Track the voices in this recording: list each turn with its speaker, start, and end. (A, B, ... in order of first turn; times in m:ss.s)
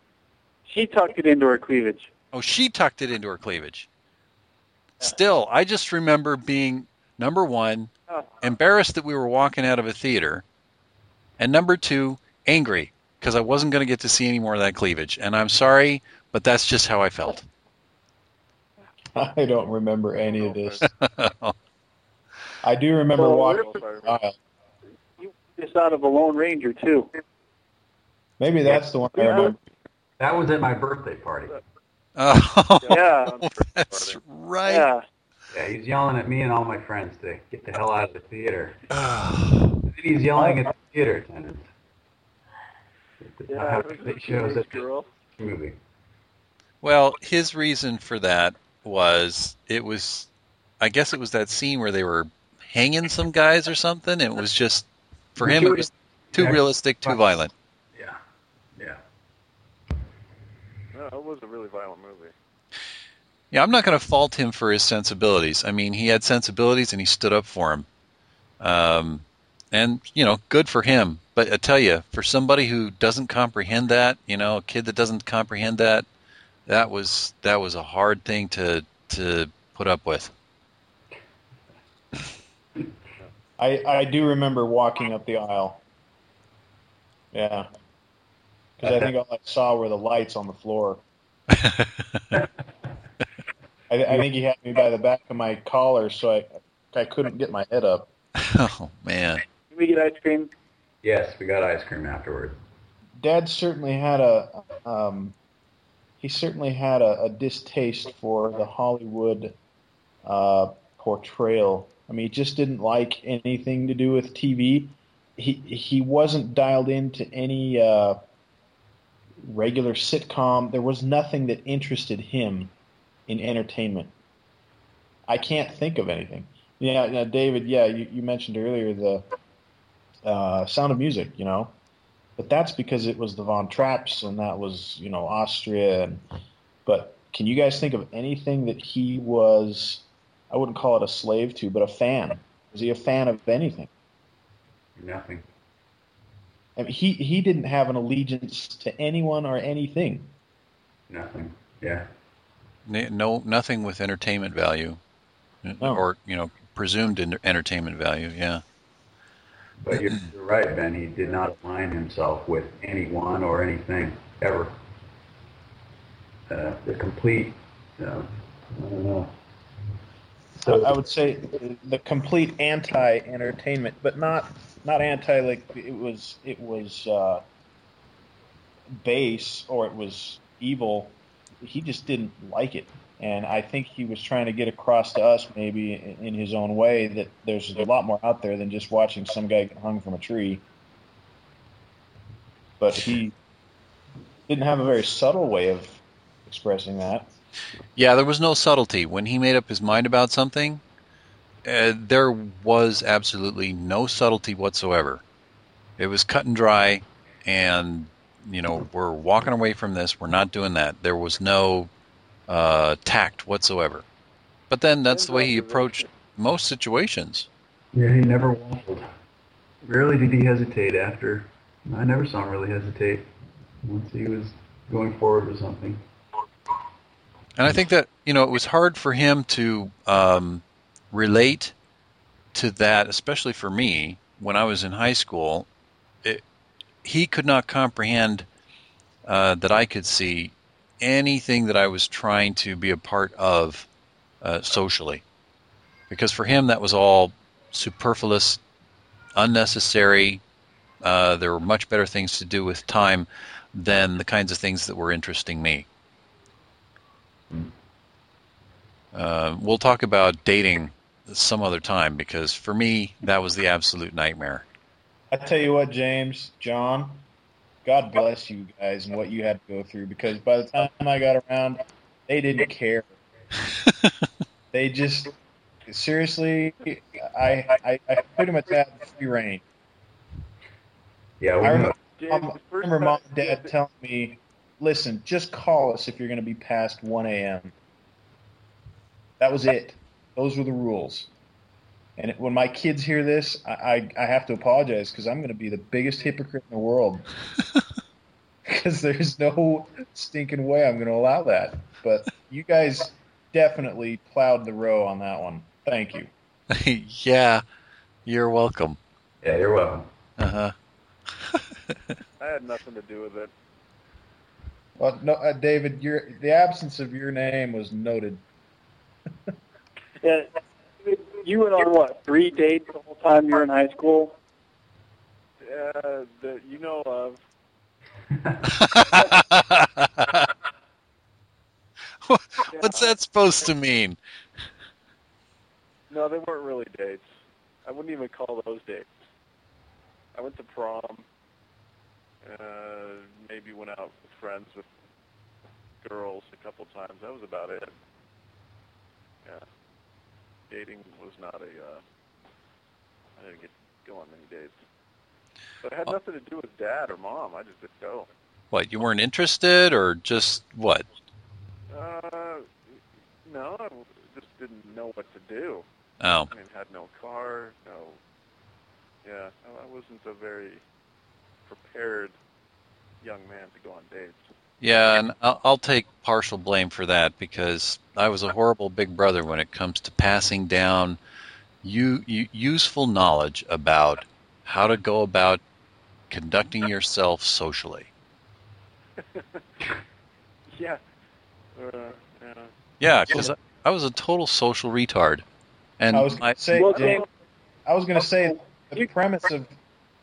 0:00.7-0:02.1 A
0:02.3-0:03.9 B
0:05.0-0:10.4 B
0:11.4-0:17.5 B
0:19.2-0:20.8 C
0:20.3-0:20.8 D
0:20.8-0:21.6 B
0:22.6-0:24.4 C
0:23.2-0:23.8 A
0:23.4-0:24.2 D
0:25.2-0:27.1 A
0:28.4-0:29.6 C
0:29.2-0:29.5 A
0:30.2-0:31.6 E
0:32.2-0:34.9 B
0:32.8-0:34.2 D
0:32.9-0:33.4 A
0:34.6-0:35.0 A
0:35.5-0:38.9 E
0:38.9-0:39.8 B
0:39.8-0:41.7 E
0:43.2-0:45.8 E
0:43.5-0:45.1 D
0:46.8-0:50.3 B
0:50.8-0:57.5 B
0:55.4-0:58.2 E
1:00.9-1:02.3 D
1:03.5-1:07.9 B
1:08.6-1:16.1 B
1:16.7-1:20.3 B
1:23.6-1:25.8 C
1:27.3-1:27.7 C
1:28.8-1:31.0 C
1:31.5-1:32.2 B
1:33.9-1:38.1 C
1:38.4-1:39.4 B
1:39.7-1:40.5 A
1:41.0-1:42.6 E
1:43.2-1:45.4 C
1:46.2-1:49.6 C
1:50.2-1:58.2 C
1:59.4-2:02.7 C
2:03.3-2:04.1 C
2:05.3-2:09.3 C
2:10.2-2:11.8 C
2:12.4-2:16.2 C
2:16.9-2:23.9 C
2:25.0-2:25.5 E
2:26.8-2:30.3 C
2:31.1-2:32.1 E
2:32.9-2:35.0 B
2:35.6-2:38.6 B
2:39.8-2:44.8 E
2:39.9-2:40.2 B
2:46.5-2:49.3 E
2:50.6-2:51.0 E
2:50.6-2:57.4 C
2:59.0-3:10.6 C
3:12.8-3:13.4 C
3:14.5-3:17.3 C
3:18.0-3:20.8 B
3:21.6-3:25.2 B
3:26.0-3:31.9 B
3:32.5-3:34.0 B
3:34.7-3:37.5 B
3:35.1-3:36.1 D
3:37.9-3:39.1 E
3:39.8-3:43.3 E
3:43.8-3:46.0 E
3:47.6-3:51.8 B
3:52.5-3:55.7 B
3:57.0-3:58.5 B
3:59.2-4:03.9 B
4:04.4-4:05.2 B
4:06.1-4:08.6 B
4:09.4-4:10.4 B
4:11.0-4:15.9 B
4:19.1-4:24.7 B
4:25.3-4:27.2 C
4:27.8-4:33.1 C
4:34.7-4:35.4 C
4:35.9-4:39.6 C
4:41.4-4:42.0 E
4:41.6-4:47.8 C
4:42.2-4:43.7 D
4:49.4-4:51.3 C
4:52.2-4:57.3 C
4:58.6-5:06.3 C
5:06.7-5:07.6 B
5:08.3-5:09.0 B
5:09.4-5:10.1 E
5:10.4-5:10.7 B
5:12.4-5:13.5 D
5:15.0-5:18.4 C
5:20.2-5:20.5 A
5:21.0-5:24.4 A
5:25.6-5:27.4 D
5:28.3-5:28.6 E
5:28.8-5:30.5 B
5:32.2-5:34.2 B
5:32.7-5:33.1 D
5:36.1-5:37.3 D
5:37.8-5:39.2 D
5:40.3-5:41.2 D
5:42.4-5:44.9 D
5:46.0-5:47.9 D
5:50.7-5:52.0 D
5:53.4-5:54.8 D
5:55.8-5:58.3 D
5:58.7-6:01.0 B
6:01.9-6:02.7 D
6:03.4-6:05.9 D
6:06.2-6:06.5 B
6:06.5-6:08.2 D
6:09.2-6:10.8 D
6:11.7-6:12.4 D
6:13.2-6:14.5 D
6:14.8-6:21.2 B
6:21.8-6:25.6 B
6:26.3-6:28.1 B
6:29.2-6:29.6 D
6:30.8-6:31.0 D
6:31.8-6:32.7 D
6:33.0-6:35.4 B
6:36.0-6:36.9 B
6:36.1-6:37.2 C
6:36.7-6:37.3 A
6:37.9-6:39.7 C